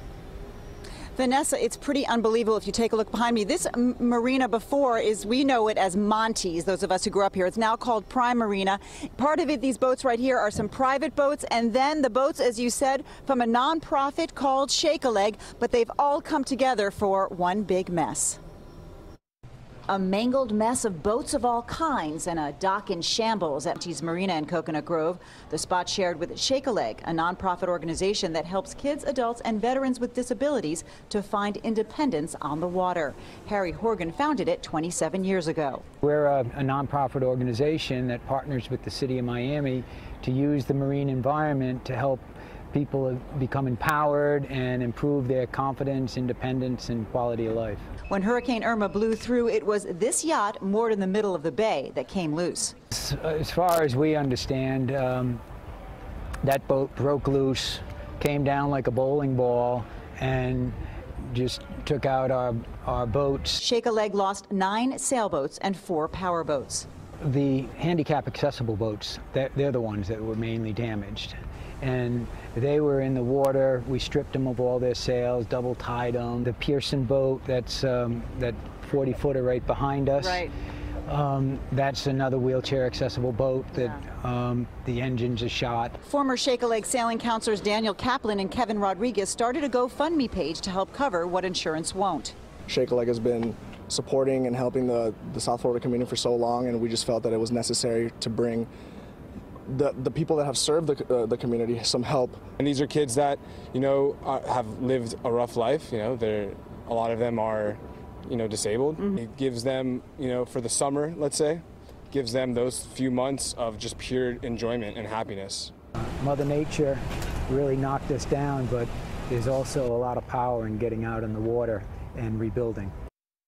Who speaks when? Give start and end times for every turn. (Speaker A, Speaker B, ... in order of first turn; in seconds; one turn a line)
Speaker A: 1.1-18.4
Speaker A: 19.9-35.8
Speaker B: 36.0-47.8
Speaker A: 48.1-52.7
Speaker B: 52.9-55.4
Speaker B: 56.4-60.8
Speaker B: 61.3-63.6
Speaker A: 63.6-66.9
Speaker B: 67.2-80.5
Speaker A: 80.2-80.5
Speaker B: 81.0-86.0
Speaker A: 86.0-92.3
Speaker C: 92.7-98.7
Speaker C: 99.7-102.4
Speaker D: 102.6-115.7
Speaker B: 116.0-122.9